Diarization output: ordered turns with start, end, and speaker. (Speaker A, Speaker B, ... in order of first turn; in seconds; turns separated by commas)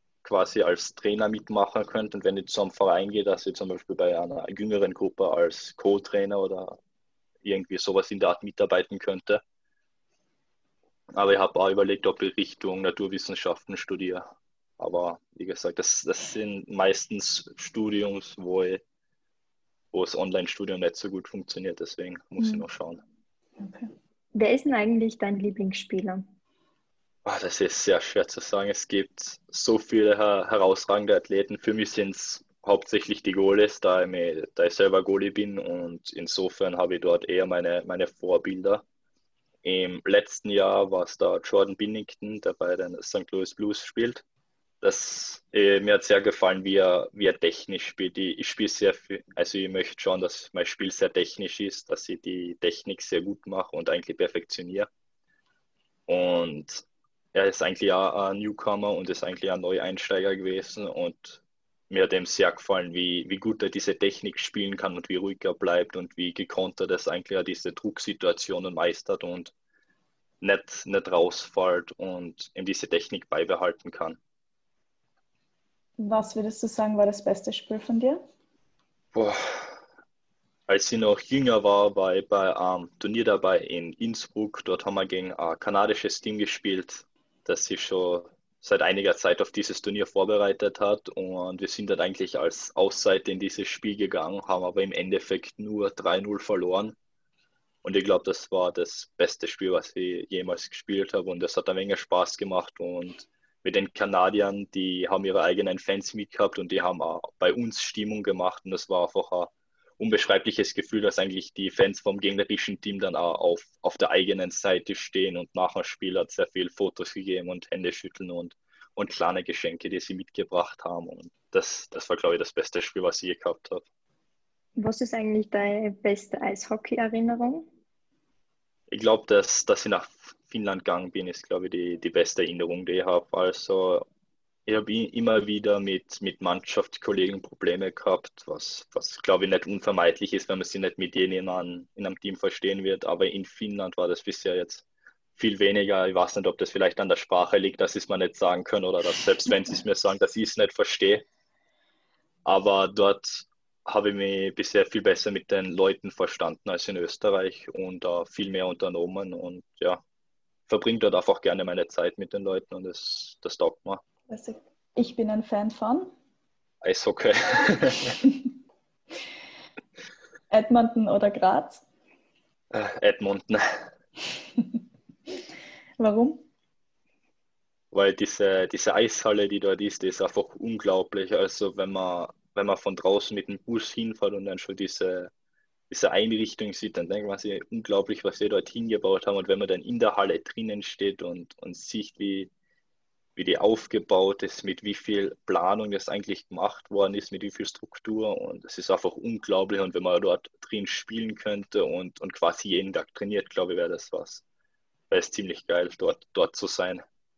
Speaker A: 0.2-6.8, Speaker A: 7.4-9.4, Speaker A: 11.1-14.2, Speaker A: 14.8-18.8, Speaker A: 19.9-23.0, Speaker B: 22.4-22.6, Speaker B: 23.6-23.9, Speaker C: 24.3-26.2, Speaker A: 27.2-38.8, Speaker A: 39.6-44.2, Speaker A: 44.8-54.9, Speaker A: 56.1-56.8, Speaker A: 57.3-69.5, Speaker A: 70.4-74.2, Speaker B: 76.0-78.2, Speaker A: 79.1-79.7, Speaker A: 80.7-97.0, Speaker A: 97.8-123.8, Speaker C: 124.8-127.7, Speaker A: 128.9-134.1, Speaker A: 134.7-144.8, Speaker A: 145.3-151.2, Speaker A: 152.4-160.0, Speaker A: 160.7-164.0, Speaker B: 164.3-166.1, Speaker A: 166.8-168.2, Speaker B: 170.5-171.8, Speaker A: 172.7-173.6, Speaker B: 176.0-176.4, Speaker A: 177.9-185.3, Speaker A: 185.9-192.5, Speaker A: 193.3-204.4, Speaker A: 205.1-207.0